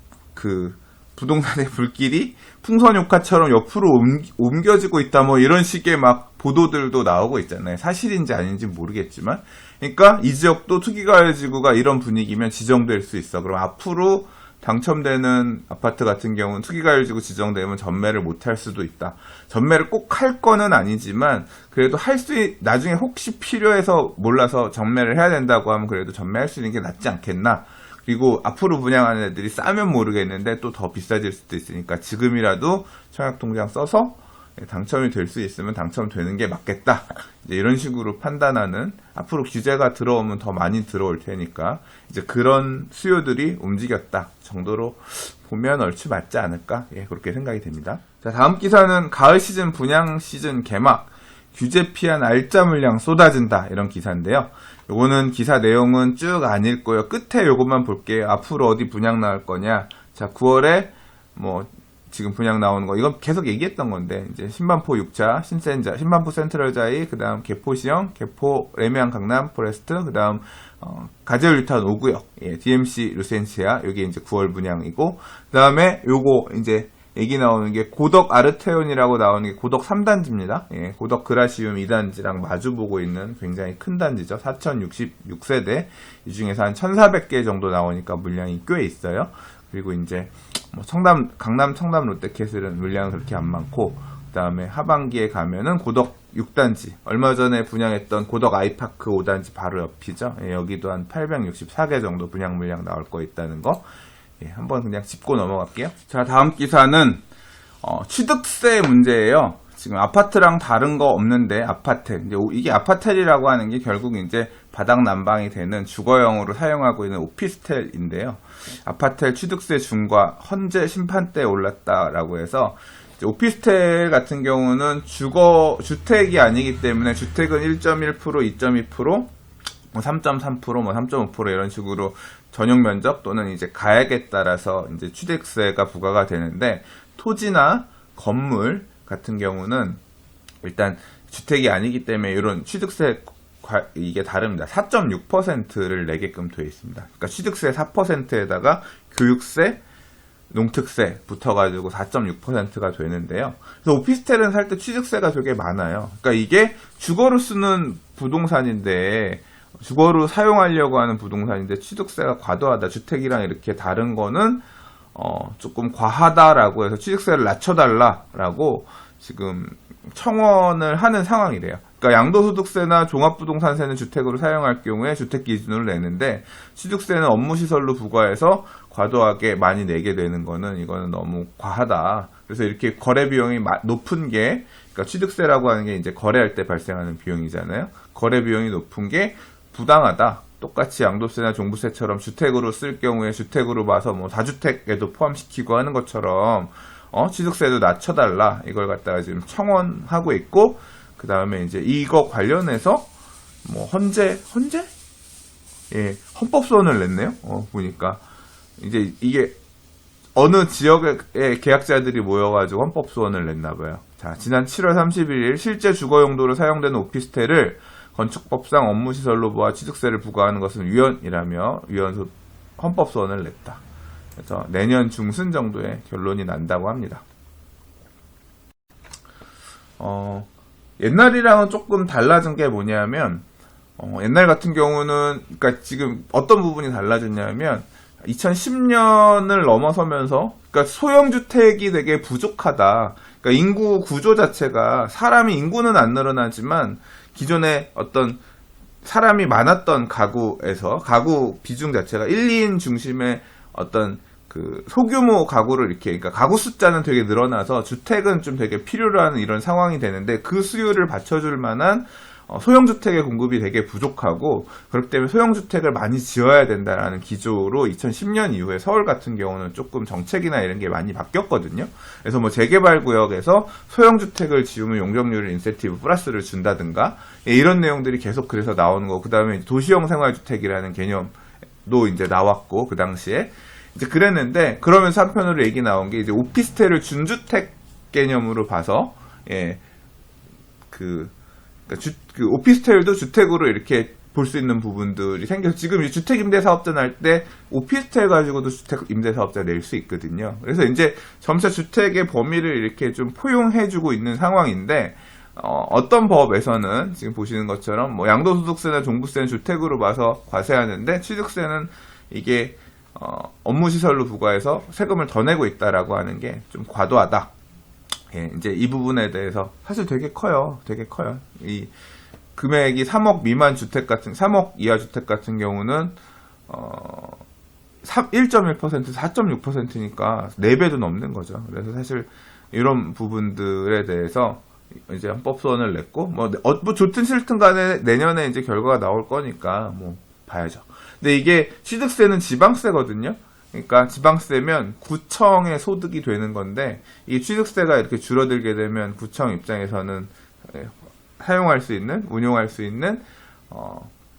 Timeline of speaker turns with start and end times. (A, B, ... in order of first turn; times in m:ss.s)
0:00.3-1:43.8 A
1:44.4-1:47.2 A
1:47.8-2:09.3 A
2:09.9-2:20.0 A
2:20.6-2:29.8 A
2:30.5-3:23.1 A
3:23.6-3:24.9 A
3:25.9-3:28.2 A
3:28.8-3:29.6 A
3:30.3-3:43.8 A
3:44.4-3:47.2 A
3:50.0-3:53.4 A
3:54.0-4:08.4 A
4:09.0-4:49.8 A
4:50.9-4:51.3 A
4:51.9-5:17.5 A
5:18.3-5:21.9 A
5:22.5-5:26.2 A
5:26.7-5:27.4 A
5:28.0-5:54.1 A